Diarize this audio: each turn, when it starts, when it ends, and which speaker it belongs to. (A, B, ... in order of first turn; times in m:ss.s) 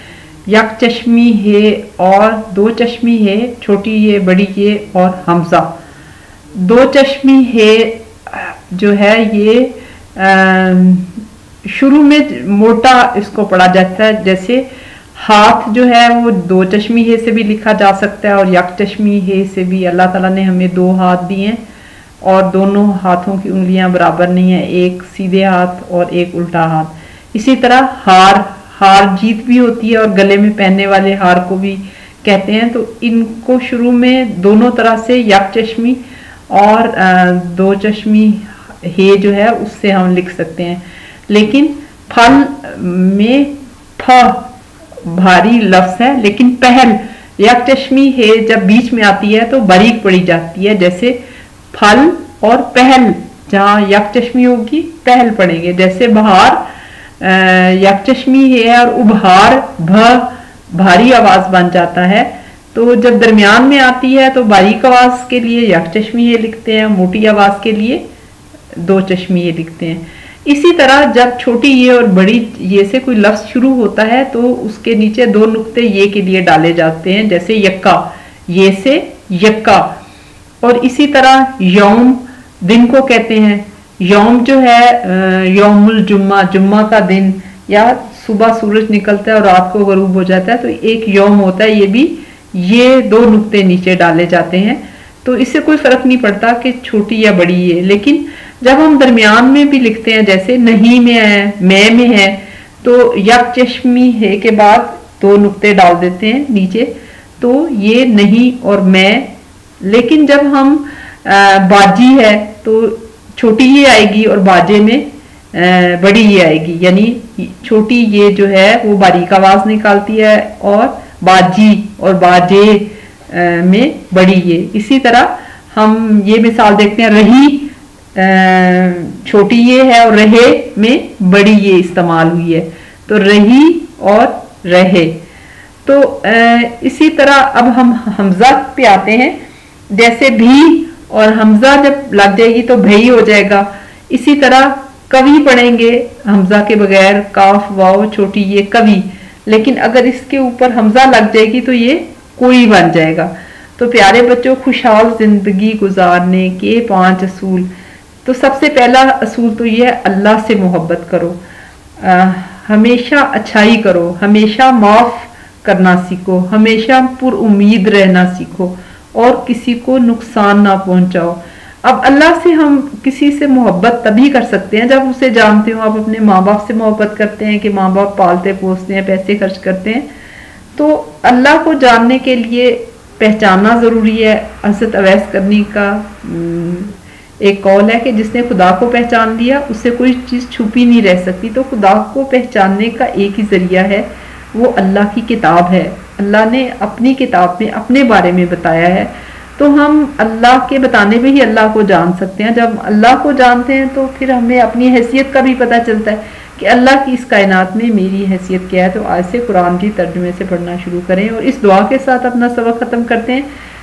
0:00.4-0:05.7 A
0:06.5-0:11.1 A
0:11.6-0:21.6 A
0:22.2-0:44.4 A
0:45.0-0:51.2 A
0:51.7-0:56.6 A
0:57.2-1:08.0 A
1:08.7-1:19.9 A
1:20.6-1:49.3 A
1:49.8-2:15.2 A
2:15.8-2:19.4 A
2:19.9-2:37.7 A
2:38.2-2:41.4 A
2:42.0-3:00.1 A
3:00.7-3:33.5 A